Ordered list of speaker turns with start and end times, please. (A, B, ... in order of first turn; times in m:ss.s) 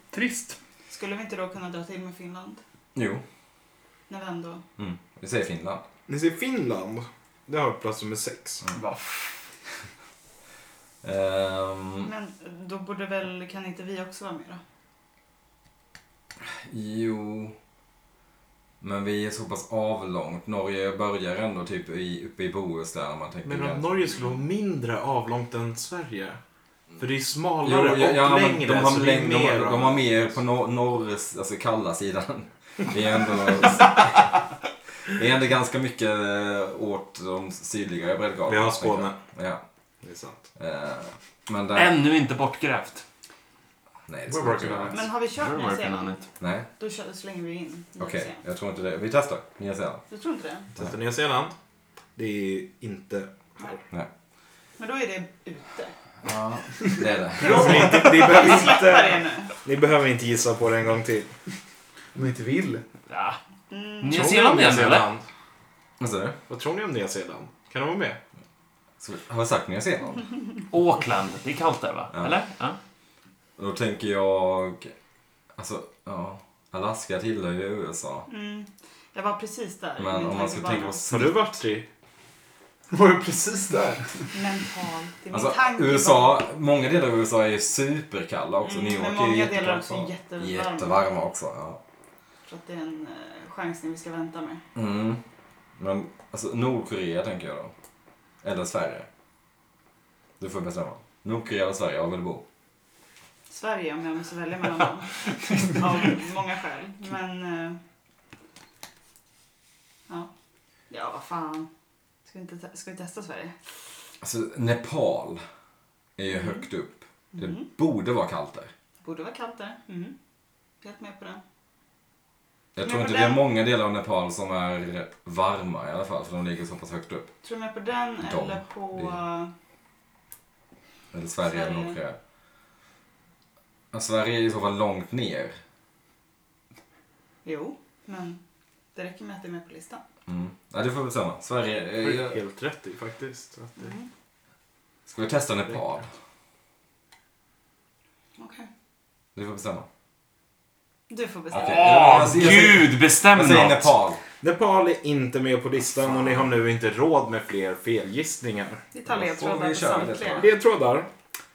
0:00.1-0:00.6 A
0:00.9-0:02.6 B
0:03.0-0:03.2 C
0:04.1-0:04.6 B
0:04.8-0:05.8 C
0:06.1-0:08.6 D
0:08.8-0:09.4 A
0:11.0-0:12.1 C
0:12.0-0:14.6 B
0:16.4-0:17.6 C
0:18.8-0:24.3 C
0:23.4-0:26.4 D
0:27.0-0:30.3 D
0:27.6-0:34.3 C
0:35.1-0:39.6 C
0:38.5-0:39.2 D
0:40.0-0:40.4 D
0:40.6-0:41.9 C
0:41.7-0:43.0 A
0:44.1-0:45.1 C
0:44.3-0:45.0 E
0:44.9-0:46.2 B
0:45.4-0:46.2 A
0:46.4-0:46.7 C
0:46.8-0:48.4 B
0:48.0-0:50.0 C
0:50.1-0:50.7 B
0:50.8-0:51.5 D
0:52.2-0:53.8 D
0:54.8-0:55.9 B
0:56.2-0:58.0 C
0:57.4-1:01.3 D
0:57.4-0:59.5 B
0:57.7-0:58.5 E
1:02.2-1:02.8 E
1:03.1-1:03.4 A
1:03.7-1:04.5 B
1:04.0-1:05.1 A
1:04.1-1:05.2 D
1:06.0-1:06.4 C
1:06.5-1:08.2 D
1:09.0-1:10.3 C
1:10.7-1:12.8 A
1:12.1-1:12.4 C
1:13.6-1:14.9 C
1:15.6-1:18.3 C
1:18.3-1:21.1 B
1:20.0-1:21.5 C
1:21.1-1:21.9 D
1:22.9-1:24.4 E
1:24.3-1:26.4 B
1:25.3-1:31.8 C
1:28.6-1:31.1 B
1:32.5-1:34.6 B
1:34.8-1:35.2 C
1:35.8-1:37.7 C
1:38.4-1:39.1 C
1:40.4-1:42.4 C
1:43.5-1:47.8 B
1:50.9-1:51.7 B
1:52.2-1:53.6 B
1:54.2-1:55.4 C
1:56.2-1:58.7 C
1:56.3-1:56.6 B
1:57.3-1:57.7 B
1:59.0-2:00.2 B
2:00.8-2:01.4 B
2:02.8-2:07.3 C
2:02.8-2:03.4 B
2:07.4-2:09.5 B
2:08.2-2:09.2 C
2:11.1-2:12.2 C
2:11.4-2:12.0 B
2:13.9-2:15.6 C
2:17.4-2:18.4 B
2:18.9-2:20.0 B
2:20.3-2:22.4 C
2:22.0-2:23.9 D
2:23.8-2:24.1 B
2:25.1-2:26.1 C
2:28.4-2:28.7 B
2:29.4-2:29.9 C
2:31.1-2:32.2 B
2:31.5-2:34.2 C
2:31.5-2:33.9 A
2:34.4-2:38.8 D
2:38.9-2:40.5 B
2:39.1-2:40.5 C
2:40.4-2:41.1 D